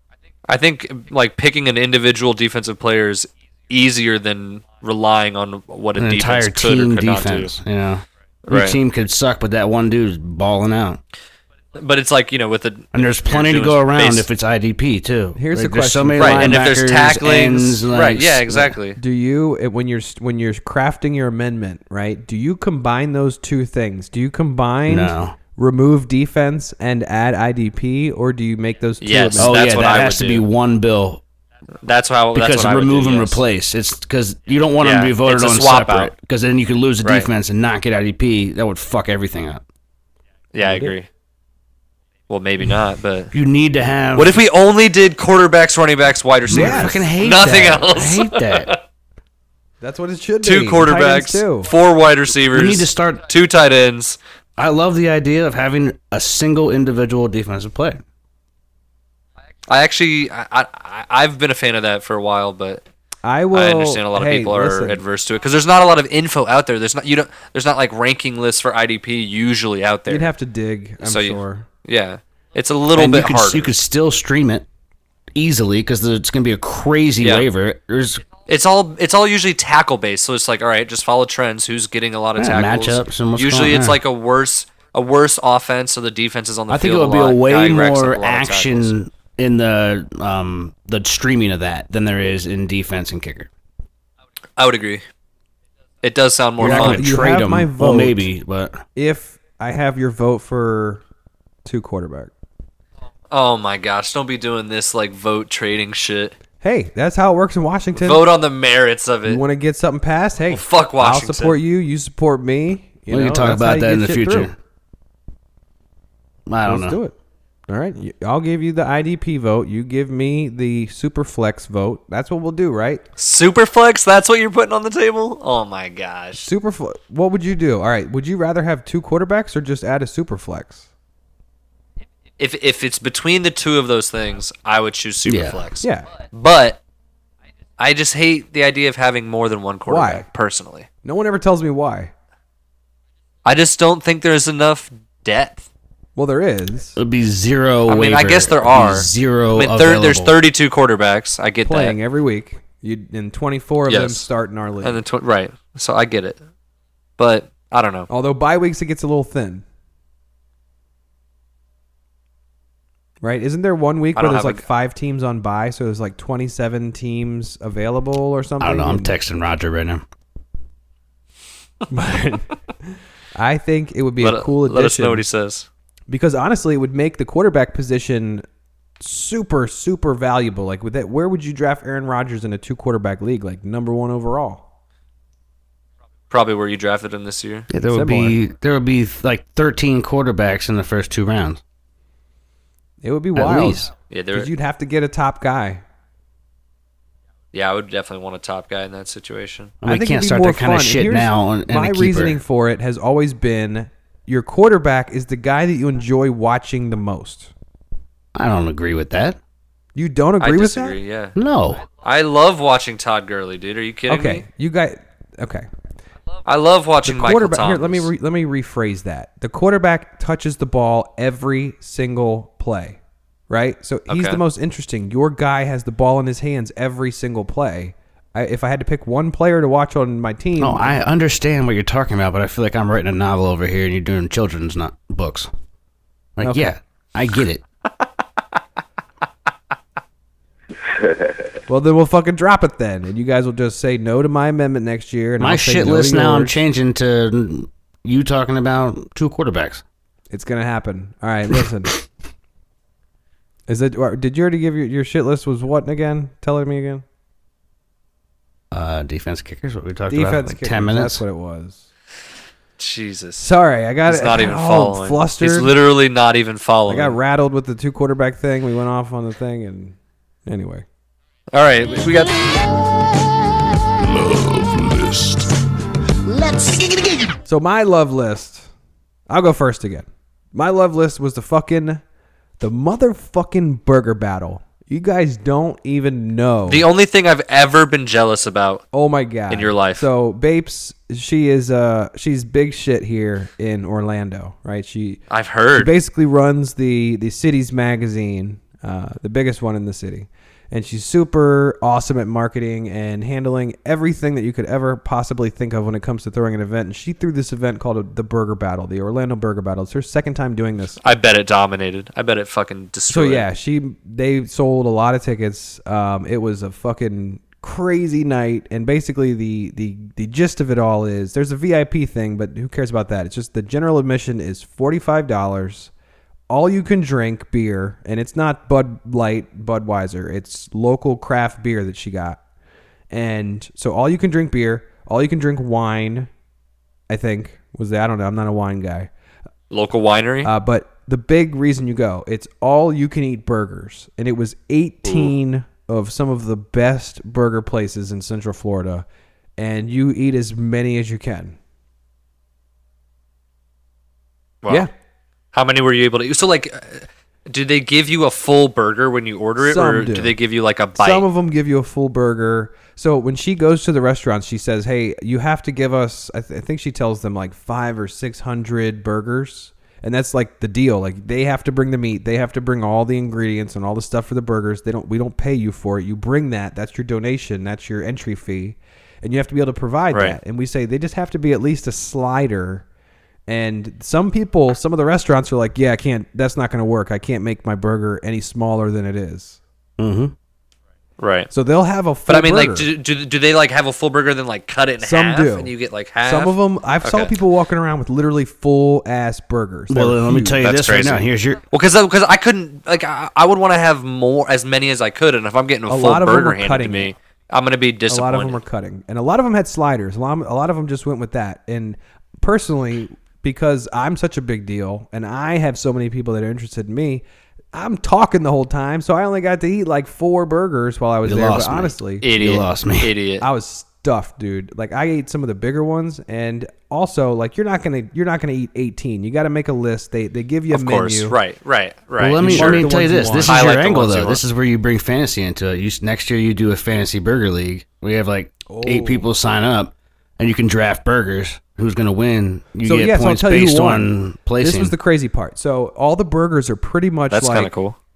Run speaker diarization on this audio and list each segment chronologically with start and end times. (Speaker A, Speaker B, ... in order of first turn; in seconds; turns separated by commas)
Speaker A: 0.5-7.5, Speaker B: 6.0-11.0, Speaker A: 8.5-8.8, Speaker A: 11.8-14.3, Speaker B: 12.9-18.7, Speaker C: 15.4-16.6, Speaker A: 16.2-19.0, Speaker C: 18.9-29.6, Speaker B: 24.9-25.4, Speaker A: 29.0-30.4, Speaker B: 29.4-31.2, Speaker A: 31.8-33.4, Speaker B: 32.4-39.6, Speaker A: 34.8-36.1, Speaker A: 37.0-37.3, Speaker A: 40.5-41.1, Speaker A: 42.3-43.3, Speaker B: 43.3-44.4, Speaker A: 44.1-48.8, Speaker B: 46.5-48.7, Speaker C: 46.5-47.1, Speaker C: 49.8-51.7, Speaker A: 50.4-54.2, Speaker B: 52.5-53.2, Speaker B: 54.6-58.0, Speaker A: 59.7-62.8, Speaker C: 63.2-65.0, Speaker A: 63.5-70.3, Speaker C: 70.1-71.7, Speaker A: 71.0-73.8, Speaker B: 73.0-74.7, Speaker B: 75.3-78.2, Speaker A: 77.2-77.5, Speaker A: 78.5-88.9, Speaker B: 82.4-84.0, Speaker B: 86.7-93.5, Speaker A: 94.6-95.0, Speaker A: 96.0-97.1, Speaker B: 96.6-98.8, Speaker C: 96.6-98.3, Speaker C: 99.0-101.0, Speaker C: 101.7-102.3, Speaker A: 103.3-106.3, Speaker C: 106.6-108.2, Speaker A: 108.0-109.4, Speaker C: 109.3-114.5, Speaker A: 110.5-111.6, Speaker B: 113.1-114.5, Speaker B: 116.5-117.0, Speaker C: 116.7-117.2, Speaker C: 117.7-123.0, Speaker A: 123.2-126.5, Speaker C: 126.4-130.9, Speaker A: 132.4-136.8, Speaker B: 135.3-135.6, Speaker C: 135.8-136.1, Speaker A: 137.8-140.9, Speaker C: 139.9-140.3, Speaker C: 141.0-142.1, Speaker A: 143.4-145.7, Speaker C: 146.2-147.0, Speaker B: 147.0-150.3, Speaker A: 147.9-152.0, Speaker C: 151.7-155.0, Speaker A: 153.9-154.3, Speaker A: 154.8-156.4, Speaker A: 157.2-158.1, Speaker C: 158.1-159.6, Speaker C: 163.2-169.2, Speaker A: 164.2-164.6, Speaker B: 168.6-170.0, Speaker C: 171.9-172.6, Speaker C: 173.3-175.2, Speaker A: 174.2-175.7, Speaker C: 176.1-178.4, Speaker C: 179.0-184.7, Speaker A: 186.3-187.7, Speaker B: 187.7-191.6, Speaker C: 187.9-188.4, Speaker C: 193.0-195.8, Speaker B: 193.3-193.9, Speaker A: 194.1-194.5, Speaker A: 197.5-199.8, Speaker B: 199.8-202.4, Speaker C: 199.8-207.5, Speaker B: 208.3-209.4, Speaker C: 209.9-211.0, Speaker A: 210.4-211.3, Speaker B: 211.3-211.8, Speaker A: 211.9-214.4, Speaker C: 214.1-215.7, Speaker A: 216.5-218.1, Speaker C: 217.0-231.0, Speaker A: 224.1-224.4, Speaker B: 230.6-235.5, Speaker B: 236.4-237.6, Speaker C: 236.4-236.7, Speaker C: 241.7-246.6, Speaker B: 245.4-249.8, Speaker C: 250.3-251.9, Speaker C: 253.7-257.1, Speaker B: 258.7-261.2, Speaker C: 260.1-261.9, Speaker A: 262.8-263.5, Speaker C: 263.4-265.7, Speaker A: 264.1-267.2, Speaker C: 266.9-270.9, Speaker A: 271.5-272.6, Speaker D: 273.9-275.6, Speaker D: 276.3-277.3, Speaker C: 277.4-278.7, Speaker C: 279.3-282.0, Speaker C: 282.6-286.9, Speaker A: 286.7-288.8, Speaker C: 288.9-295.2, Speaker A: 289.5-290.1, Speaker A: 295.3-295.9, Speaker C: 295.8-311.0, Speaker A: 311.0-313.5, Speaker C: 313.1-325.9, Speaker C: 326.5-332.4, Speaker C: 333.1-336.3, Speaker C: 337.1-339.1, Speaker A: 339.7-340.5, Speaker C: 340.4-349.1, Speaker A: 345.1-345.3, Speaker C: 349.6-351.6, Speaker A: 354.6-354.9, Speaker A: 355.5-361.3, Speaker C: 359.6-360.4, Speaker C: 361.0-382.9, Speaker A: 380.1-380.4, Speaker C: 383.5-389.6, Speaker B: 390.0-390.3, Speaker A: 391.2-391.5, Speaker C: 391.5-392.9, Speaker A: 392.3-397.4, Speaker C: 395.0-400.6, Speaker B: 399.9-401.6, Speaker A: 400.6-408.6, Speaker C: 405.9-407.1, Speaker C: 408.1-422.3, Speaker B: 421.2-423.1, Speaker A: 422.2-423.5, Speaker C: 423.4-431.4, Speaker A: 430.7-432.9, Speaker B: 432.2-444.9, Speaker C: 432.4-433.6, Speaker A: 433.4-434.4, Speaker C: 438.7-439.3, Speaker C: 442.9-447.7, Speaker A: 447.3-448.0